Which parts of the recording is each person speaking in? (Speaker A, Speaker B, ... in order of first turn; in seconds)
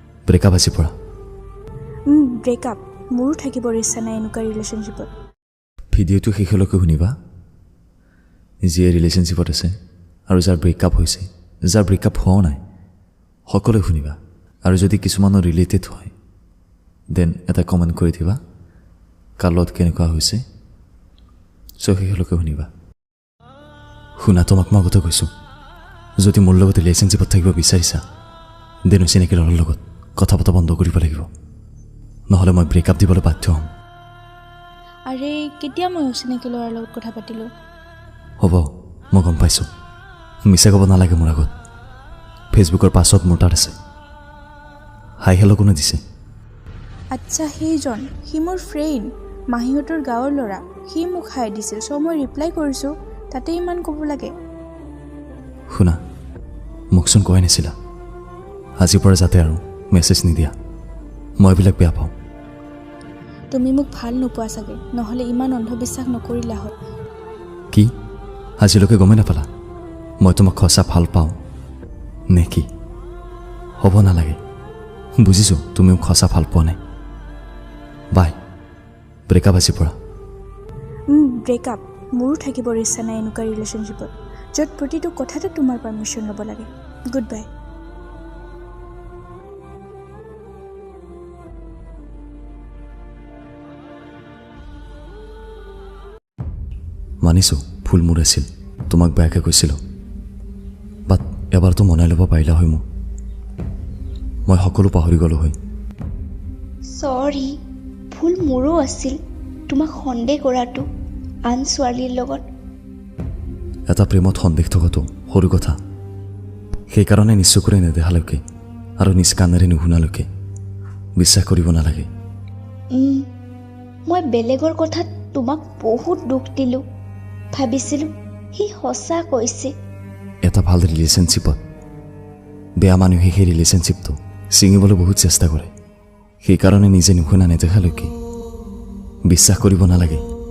Speaker A: 0.3-0.9, 5.9-7.2, 8.6-9.7, 10.3-12.6, 13.5-16.1, 17.1-18.4, 19.4-20.4, 21.8-22.7, 24.2-25.3, 26.2-28.0, 28.9-31.3, 32.3-33.7, 38.4-39.7, 40.5-41.5, 42.5-43.8, 45.2-46.0, 55.7-56.0, 56.9-57.7, 58.8-60.5, 61.4-62.1, 68.6-69.5, 70.2-71.3, 72.3-72.7, 73.8-74.4, 75.2-76.8, 79.3-79.9, 97.2-99.8, 101.1-102.8, 104.5-105.5, 113.9-115.8, 116.9-118.4, 119.0-120.3, 121.2-122.1, 130.4-131.6, 132.8-135.7, 136.4-138.1, 139.3-140.2
Speaker B: 2.1-5.1, 35.1-37.5, 47.1-54.3, 63.5-66.7, 81.1-87.5
Speaker C: 106.9-107.5, 108.1-109.2, 109.7-110.8, 111.5-112.4, 122.9-123.2, 124.1-126.8, 127.5-129.7